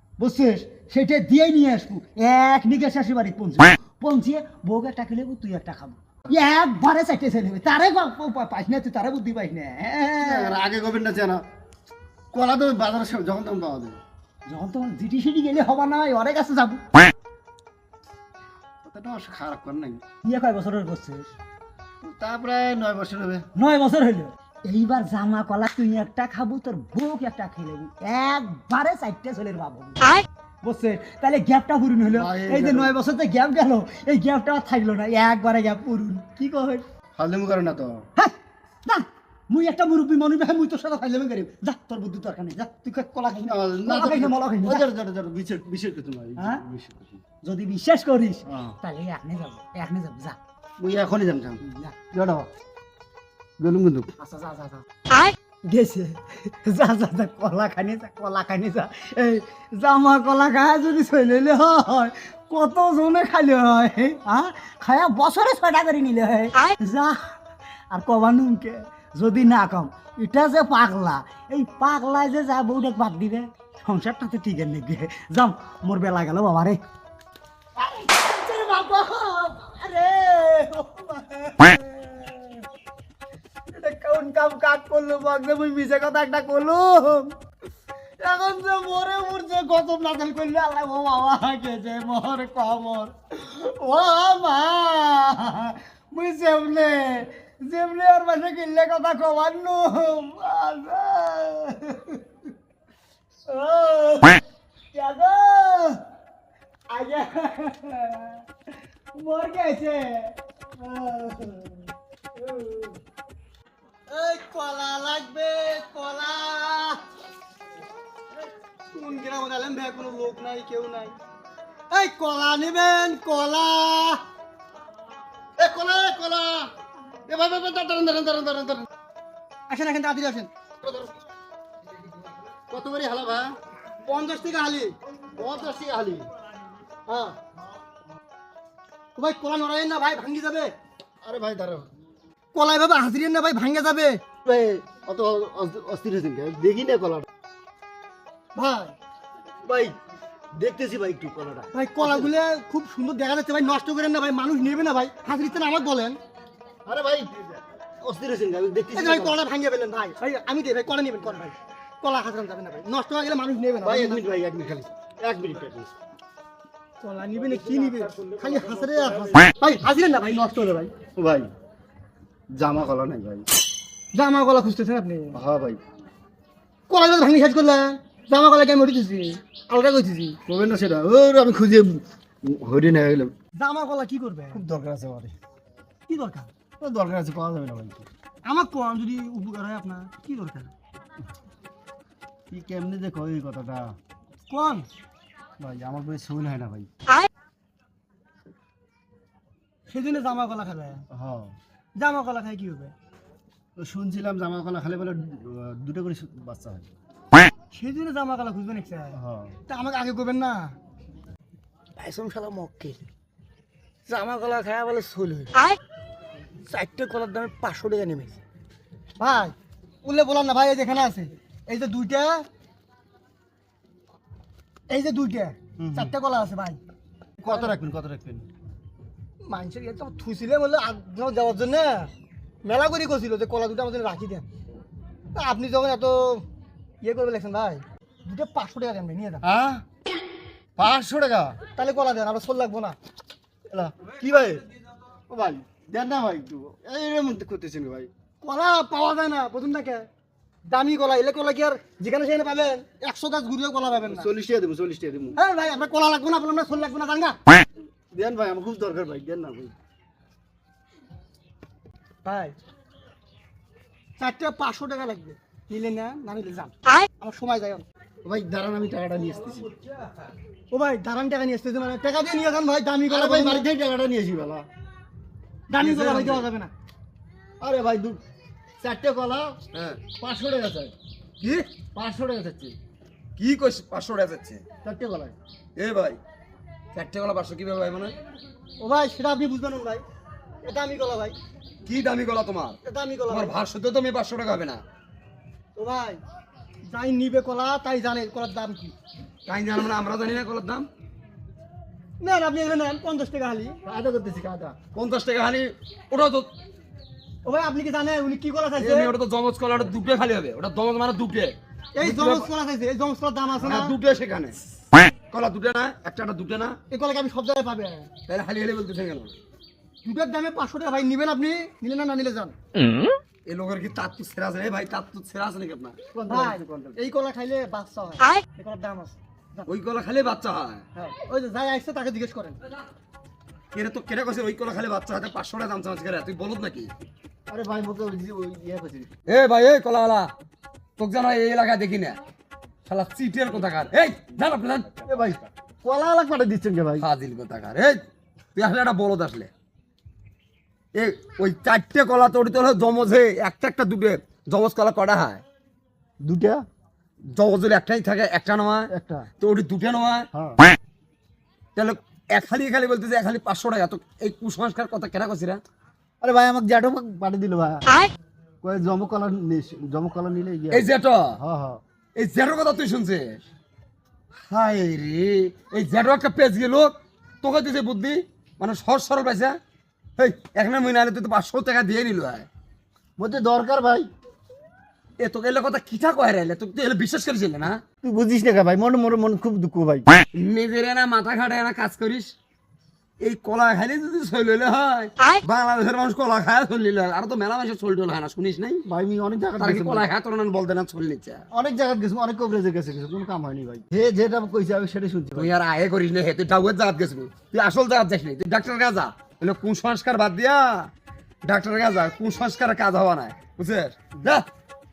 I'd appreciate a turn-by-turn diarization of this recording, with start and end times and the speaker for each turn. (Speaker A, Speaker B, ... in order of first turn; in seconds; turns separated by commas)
Speaker A: 0.2-10.6, Speaker B: 10.2-11.4, Speaker B: 12.3-14.0, Speaker A: 14.5-16.8, Speaker B: 18.8-20.0, Speaker A: 20.2-21.3, Speaker B: 22.0-23.5, Speaker A: 23.6-36.8, Speaker B: 32.1-33.0, Speaker B: 37.2-38.1, Speaker A: 38.9-44.9, Speaker B: 43.5-47.2, Speaker A: 46.4-46.6, Speaker A: 47.4-50.4, Speaker B: 48.5-48.8, Speaker B: 50.8-52.5, Speaker A: 51.7-52.0, Speaker B: 53.6-54.1, Speaker A: 54.2-54.8, Speaker A: 55.6-67.3, Speaker A: 67.9-76.8, Speaker A: 77.8-82.6, Speaker A: 83.7-87.3, Speaker A: 88.2-102.2, Speaker A: 103.5-104.4, Speaker A: 104.9-106.0, Speaker A: 106.9-108.4, Speaker A: 109.1-113.0, Speaker C: 114.1-117.0, Speaker C: 118.9-121.2, Speaker C: 121.9-124.2, Speaker B: 125.6-126.7, Speaker B: 127.3-128.9, Speaker C: 129.7-130.5, Speaker B: 130.8-131.1, Speaker B: 132.7-133.5, Speaker C: 134.0-135.0, Speaker B: 135.3-136.3, Speaker C: 137.1-137.4, Speaker C: 139.2-140.7, Speaker B: 141.2-141.9, Speaker C: 142.5-144.2, Speaker B: 144.4-147.3, Speaker C: 148.6-148.9, Speaker B: 149.7-150.0, Speaker B: 150.6-152.3, Speaker C: 151.7-156.2, Speaker B: 156.9-159.4, Speaker C: 158.9-164.2, Speaker B: 163.8-165.9, Speaker C: 167.0-170.9, Speaker B: 171.2-171.5, Speaker B: 172.5-173.5, Speaker C: 174.1-175.4, Speaker B: 175.3-175.8, Speaker C: 176.9-180.4, Speaker B: 180.5-183.3, Speaker C: 183.6-184.6, Speaker B: 184.5-185.3, Speaker C: 186.1-186.5, Speaker B: 186.8-188.1, Speaker C: 188.4-190.7, Speaker B: 192.5-194.0, Speaker C: 194.5-194.9, Speaker B: 195.6-196.9, Speaker C: 199.9-201.0, Speaker B: 201.1-201.6, Speaker C: 202.0-202.9, Speaker B: 203.8-206.9, Speaker C: 207.7-209.2, Speaker B: 209.1-209.6, Speaker C: 209.7-210.8, Speaker A: 212.0-213.0, Speaker C: 212.2-212.9, Speaker C: 214.1-215.7, Speaker C: 216.7-218.4, Speaker C: 219.2-222.5, Speaker C: 224.9-226.8, Speaker B: 225.8-226.1, Speaker B: 227.4-228.5, Speaker C: 229.4-232.1, Speaker C: 232.6-234.5, Speaker C: 235.3-236.4, Speaker C: 237.0-239.4, Speaker B: 239.4-239.8, Speaker B: 240.8-241.6, Speaker C: 241.7-243.0, Speaker B: 243.7-244.6, Speaker B: 245.3-248.1, Speaker C: 248.4-250.1, Speaker C: 250.7-254.3, Speaker B: 254.1-255.4, Speaker C: 255.4-257.4, Speaker B: 258.1-259.7, Speaker C: 262.2-262.6, Speaker C: 264.2-267.9, Speaker B: 268.2-269.7, Speaker C: 270.7-273.6, Speaker B: 273.1-274.7, Speaker C: 275.7-276.7, Speaker B: 275.8-276.4, Speaker B: 277.6-278.2, Speaker B: 278.8-279.6, Speaker D: 279.7-280.1, Speaker B: 280.2-280.9, Speaker D: 281.4-281.7, Speaker B: 281.9-282.8, Speaker D: 283.4-284.6, Speaker B: 284.8-285.4, Speaker D: 285.8-286.2, Speaker D: 286.9-288.2, Speaker C: 288.8-290.0, Speaker C: 290.6-291.4, Speaker D: 291.9-292.8, Speaker C: 292.9-293.6, Speaker D: 293.3-294.8, Speaker C: 295.8-296.2, Speaker C: 296.9-298.9, Speaker D: 299.5-300.9, Speaker C: 302.2-303.8, Speaker B: 303.9-304.8, Speaker D: 304.9-306.5, Speaker C: 307.4-309.1, Speaker D: 308.8-312.5, Speaker C: 312.0-314.0, Speaker D: 313.6-314.6, Speaker D: 315.3-316.8, Speaker C: 316.9-318.1, Speaker D: 318.3-319.3, Speaker C: 320.1-322.6, Speaker D: 323.4-326.0, Speaker B: 326.1-327.0, Speaker C: 326.3-329.7, Speaker D: 329.7-330.8, Speaker C: 330.9-332.6, Speaker D: 333.7-336.9, Speaker B: 337.5-339.1, Speaker D: 339.3-340.3, Speaker D: 341.0-342.2, Speaker D: 342.9-345.1, Speaker B: 345.1-347.1, Speaker D: 347.0-348.0, Speaker D: 348.6-349.5, Speaker D: 350.9-355.4, Speaker B: 356.2-356.6, Speaker D: 357.3-358.9, Speaker B: 358.9-359.3, Speaker D: 359.4-360.3, Speaker B: 360.3-360.6, Speaker D: 361.8-365.6, Speaker B: 366.2-368.0, Speaker B: 368.6-371.8, Speaker D: 370.7-371.4, Speaker D: 372.2-373.4, Speaker D: 374.5-379.6, Speaker D: 380.2-382.5, Speaker B: 383.2-384.1, Speaker D: 385.2-387.8, Speaker B: 388.0-390.1, Speaker D: 390.4-392.3, Speaker D: 393.2-398.8, Speaker B: 398.9-400.1, Speaker D: 399.6-401.4, Speaker B: 401.5-405.5, Speaker D: 405.4-410.9, Speaker D: 411.4-414.5